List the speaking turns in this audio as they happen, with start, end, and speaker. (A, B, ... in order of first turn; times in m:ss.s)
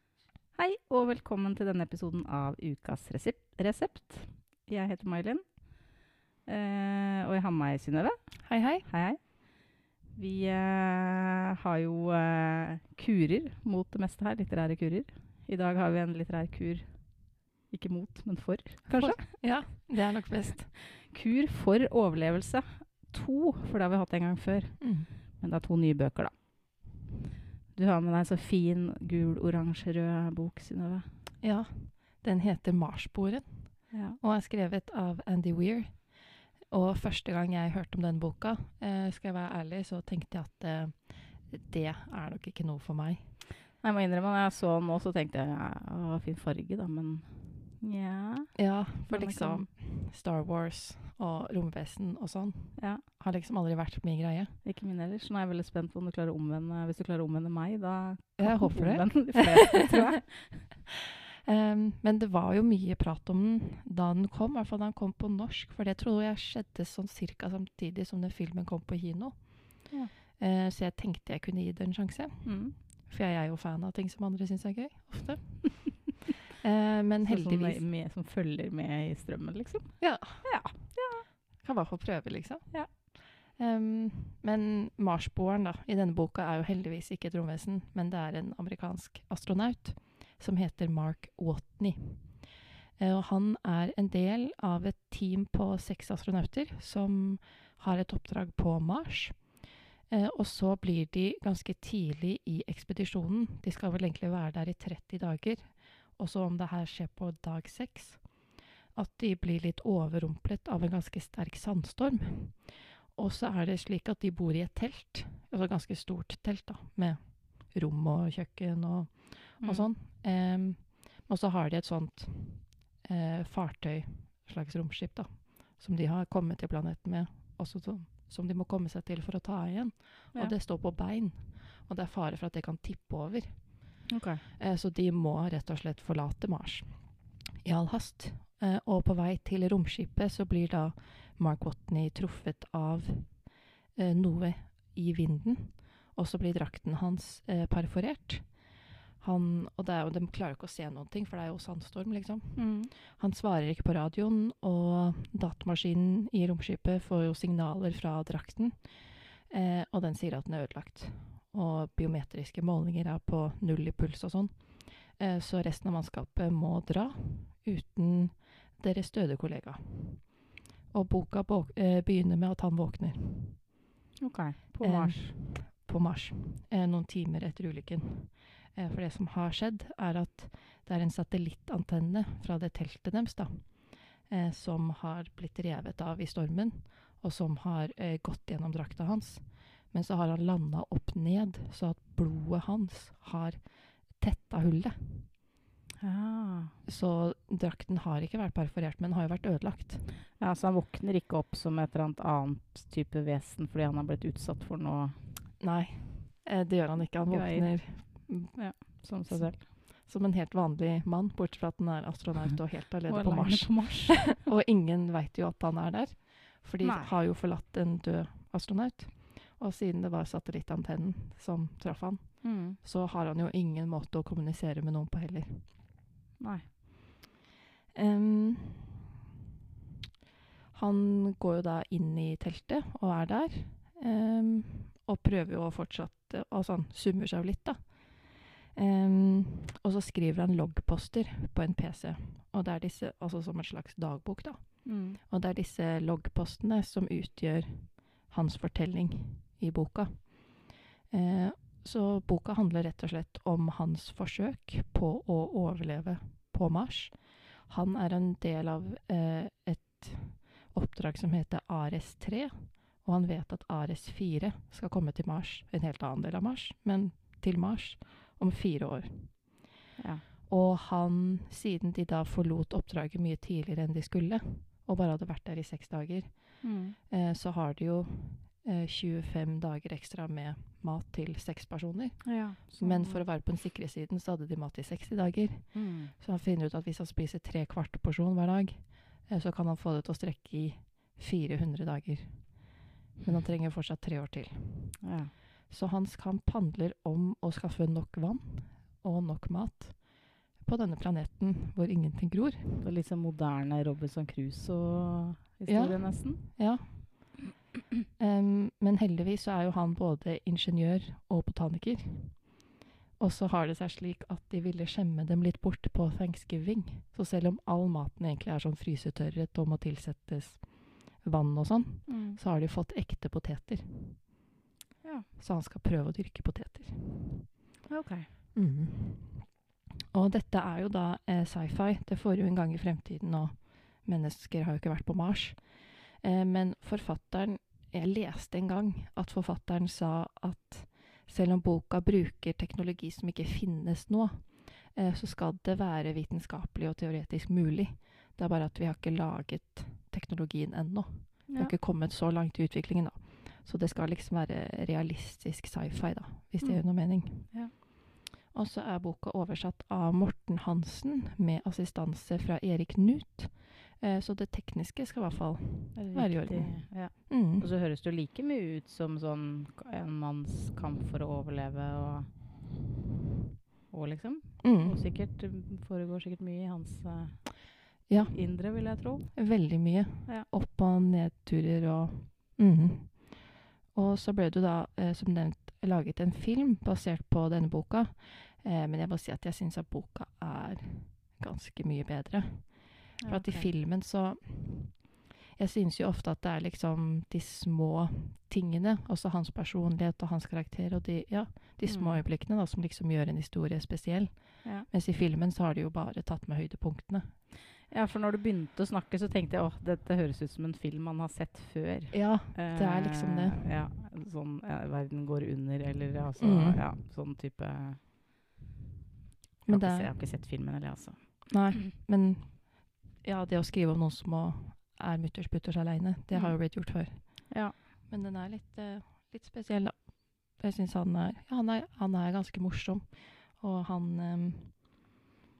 0:00.6-0:19.9 A
0:08.4-0:08.8 B
0:18.9-0:20.7 B
0:20.9-0:26.9 A
0:24.8-0:25.1 B
0:27.7-0:31.1 A
0:31.4-0:43.3 B
0:33.9-0:34.2 A
0:43.8-0:49.7 A
0:48.5-0:54.6 B
0:52.8-0:53.0 A
0:54.6-1:00.6 A
0:58.4-1:00.0 B
1:01.4-1:17.8 B
1:12.4-1:12.8 A
1:17.2-1:21.3 A
1:20.0-2:53.7 B
1:59.6-1:59.9 A
2:14.1-2:14.4 A
2:32.6-2:32.9 A
2:54.2-2:55.3 A
2:54.8-3:15.3 B
3:16.0-3:16.7 A
3:16.8-3:20.1 B
3:20.4-3:25.2 A
3:25.6-3:45.7 B
3:27.3-3:29.6 A
3:33.1-3:34.4 A
3:36.8-3:37.2 A
3:42.4-3:42.8 A
3:46.4-3:46.7 A
3:47.9-3:49.0 B
3:50.7-4:29.7 B
4:04.8-4:05.2 A
4:30.0-4:30.2 A
4:30.4-4:55.1 B
4:36.6-4:37.0 A
4:42.2-4:43.2 A
4:45.7-4:46.1 A
4:55.0-4:55.3 A
4:55.7-5:02.8 B
5:02.8-5:06.6 A
5:05.7-5:07.4 B
5:08.2-5:24.3 B
5:22.1-5:22.4 A
5:25.4-5:27.5 B
5:27.9-5:28.3 A
5:28.5-5:57.9 B
5:51.5-5:51.7 A
5:56.6-5:57.7 A
5:58.5-6:07.7 B
6:05.9-6:12.3 A
6:13.9-6:20.5 A
6:14.6-6:15.0 B
6:18.1-6:47.4 B
6:33.2-6:33.7 A
6:41.8-6:42.2 A
6:47.9-6:58.0 A
6:52.1-6:53.6 B
6:56.4-6:56.8 B
6:59.6-7:00.1 B
6:59.7-7:01.8 A
7:01.5-7:15.0 B
7:06.3-7:07.7 A